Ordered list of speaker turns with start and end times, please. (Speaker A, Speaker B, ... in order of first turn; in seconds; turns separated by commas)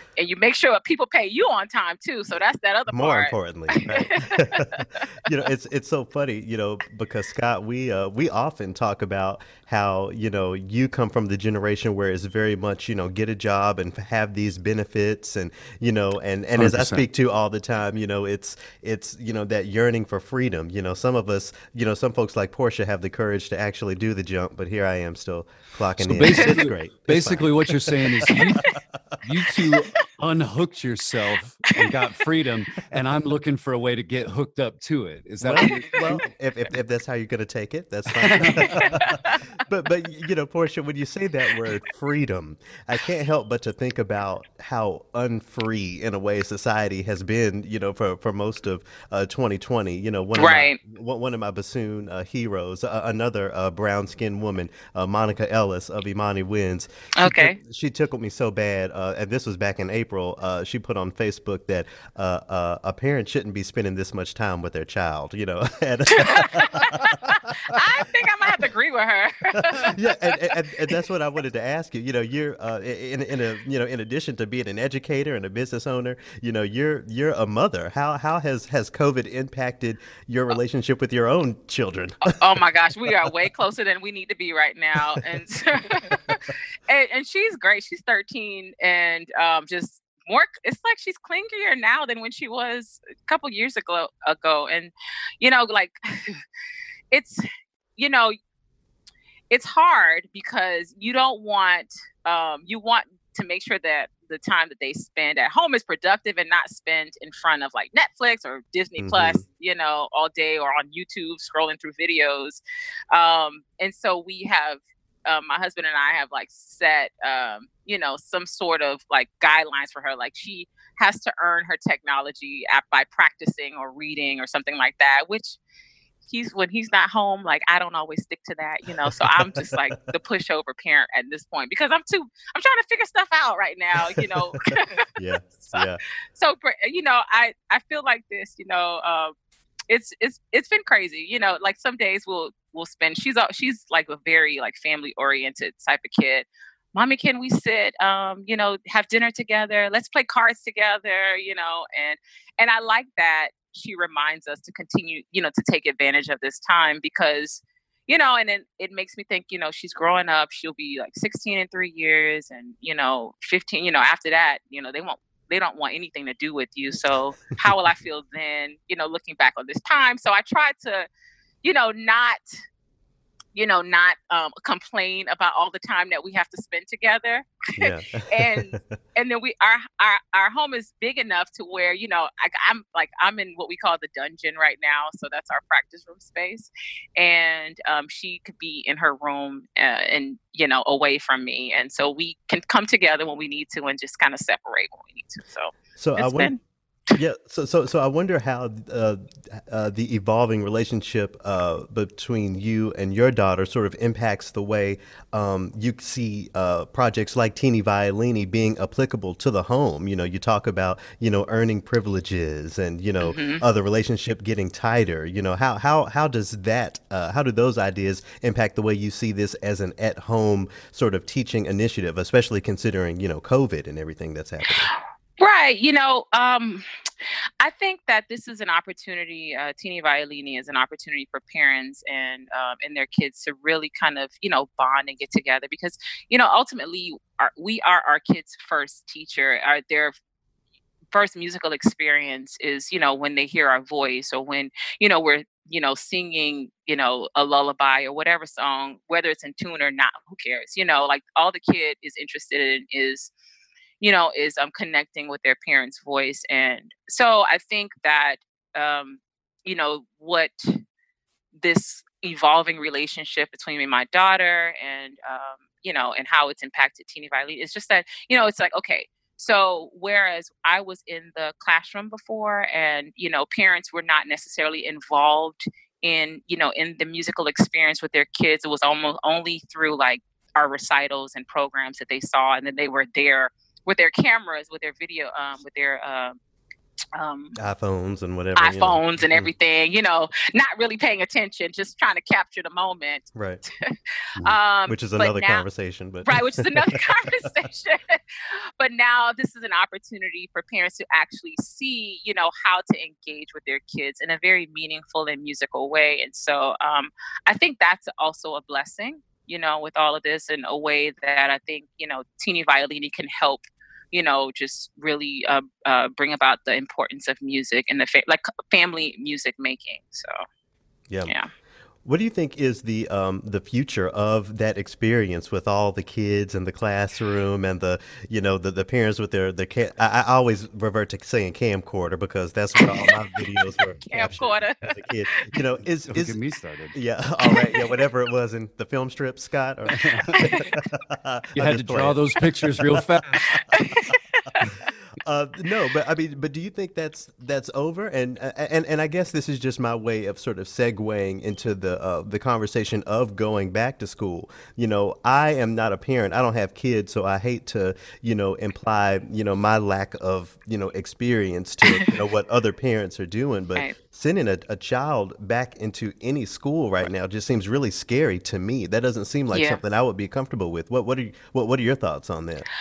Speaker A: 0.2-5.0, Speaker B: 2.9-28.8, Speaker C: 16.6-17.1, Speaker C: 26.0-36.2, Speaker B: 35.4-67.8, Speaker A: 35.6-36.2, Speaker C: 38.3-38.7, Speaker A: 38.6-39.4, Speaker A: 50.4-50.8, Speaker A: 57.2-57.6, Speaker A: 66.2-67.1, Speaker A: 67.7-70.5, Speaker B: 69.6-83.3, Speaker A: 82.2-96.4, Speaker A: 97.1-97.4, Speaker A: 98.0-98.4, Speaker A: 99.5-112.6, Speaker B: 109.0-109.4, Speaker A: 113.1-125.6, Speaker A: 126.3-139.3, Speaker B: 129.0-129.7, Speaker B: 135.2-136.0, Speaker A: 139.9-171.1, Speaker A: 171.6-172.4, Speaker A: 173.5-196.6, Speaker B: 177.8-178.8, Speaker B: 196.0-196.6, Speaker B: 197.1-224.9, Speaker A: 213.2-213.6, Speaker A: 224.8-226.8, Speaker A: 227.6-240.2, Speaker A: 241.1-253.3, Speaker A: 254.0-260.8, Speaker A: 261.6-286.4, Speaker A: 287.1-287.6, Speaker B: 287.6-289.5, Speaker A: 288.6-293.3, Speaker B: 293.4-293.6, Speaker A: 293.8-295.7, Speaker B: 294.9-297.5, Speaker A: 296.3-298.2, Speaker A: 298.8-320.4, Speaker B: 322.1-336.4, Speaker A: 332.8-335.6, Speaker C: 336.1-337.0, Speaker B: 336.9-342.9, Speaker A: 337.4-337.9, Speaker C: 339.9-340.4, Speaker A: 340.4-340.8, Speaker C: 341.6-343.5, Speaker A: 343.7-344.7, Speaker B: 344.6-372.7, Speaker A: 361.9-362.2, Speaker A: 369.5-369.8